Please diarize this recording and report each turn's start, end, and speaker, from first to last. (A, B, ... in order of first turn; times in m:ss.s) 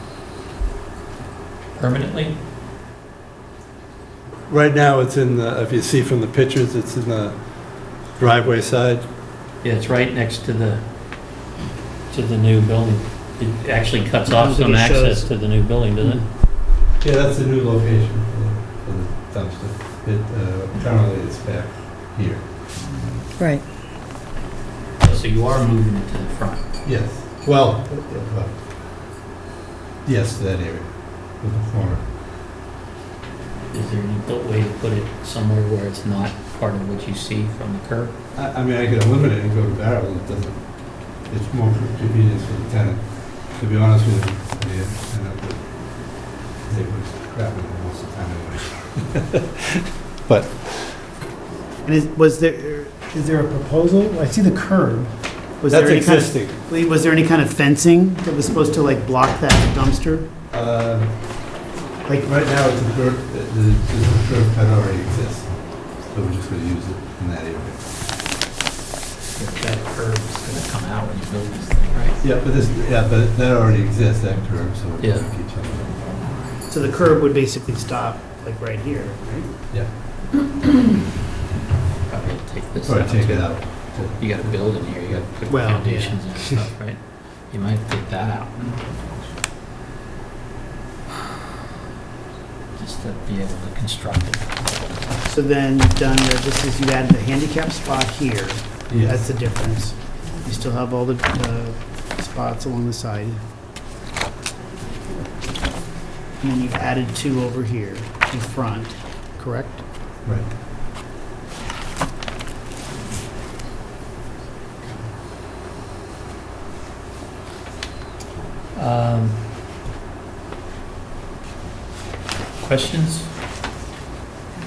0:01.8-0:02.4 A
0:04.5-0:09.0 B
0:09.6-0:11.4 A
0:12.1-0:16.2 A
0:14.3-0:15.3 C
0:17.0-0:22.4 B
0:25.0-0:26.6 A
0:26.8-0:28.6 B
0:30.0-0:32.0 B
0:33.7-0:38.1 A
0:38.3-0:51.0 B
0:51.8-1:00.3 C
0:55.7-0:56.6 B
1:00.5-1:01.2 B
1:02.2-1:07.8 B
1:09.4-1:12.2 A
1:12.2-1:16.3 B
1:15.0-1:15.3 A
1:16.7-1:19.5 C
1:22.1-1:29.1 A
1:22.8-1:25.2 B
1:25.5-1:26.3 C
1:32.8-1:35.0 A
1:35.3-1:43.4 C
1:38.9-1:39.2 B
1:46.4-1:49.8 C
1:50.2-1:50.5 B
1:58.7-1:59.4 A
2:02.6-2:03.3 A